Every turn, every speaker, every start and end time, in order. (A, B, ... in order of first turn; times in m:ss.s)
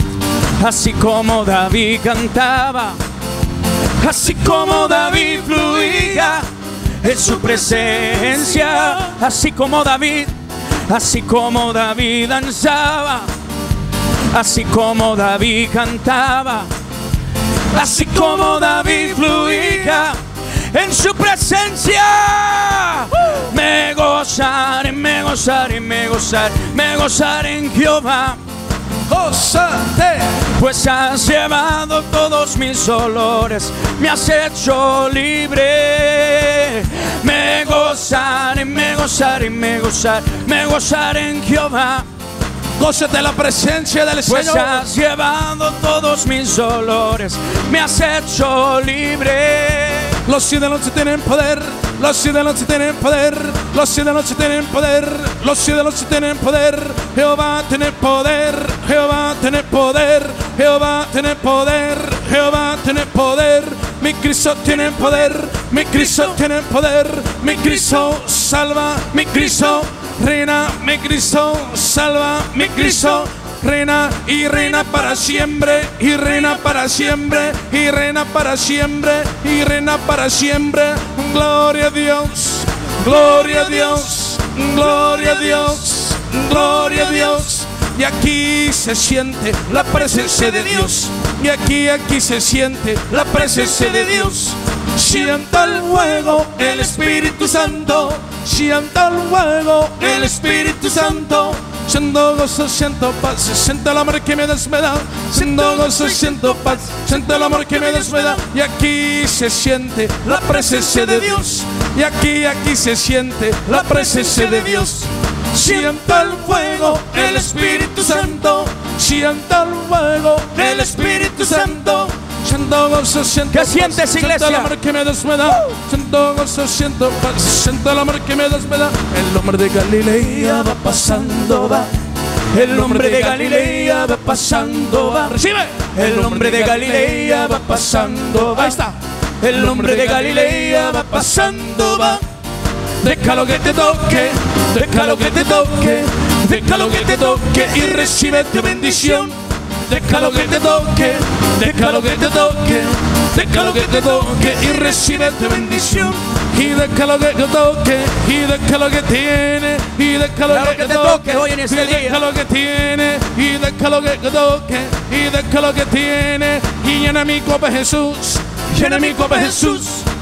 0:00.6-0:03.0 A
0:04.0-0:06.4 A
0:07.0-0:13.3 A
0:14.3-0:16.7 A
0:17.7-0:20.2 A
0:20.7-0:28.4 A
0:29.1-0:30.4 B
0:30.5-0:42.1 A
0:42.8-0:44.9 B
0:44.3-0:50.2 A
0:50.2-2:11.9 B
1:45.3-1:48.4 A
1:50.2-1:51.5 A
1:53.7-1:55.0 A
1:56.8-1:58.4 A
2:00.6-2:02.0 A
2:03.5-2:04.7 A
2:10.6-2:11.9 A
2:12.5-2:15.3 A
2:12.5-2:22.2 B
2:15.9-2:18.8 A
2:19.4-2:22.2 A
2:23.0-2:29.3 B
2:24.8-2:29.3 A
2:29.9-2:49.8 B
2:31.6-2:32.3 A
2:33.6-2:36.1 A
2:40.5-2:42.2 A
2:48.7-2:50.0 A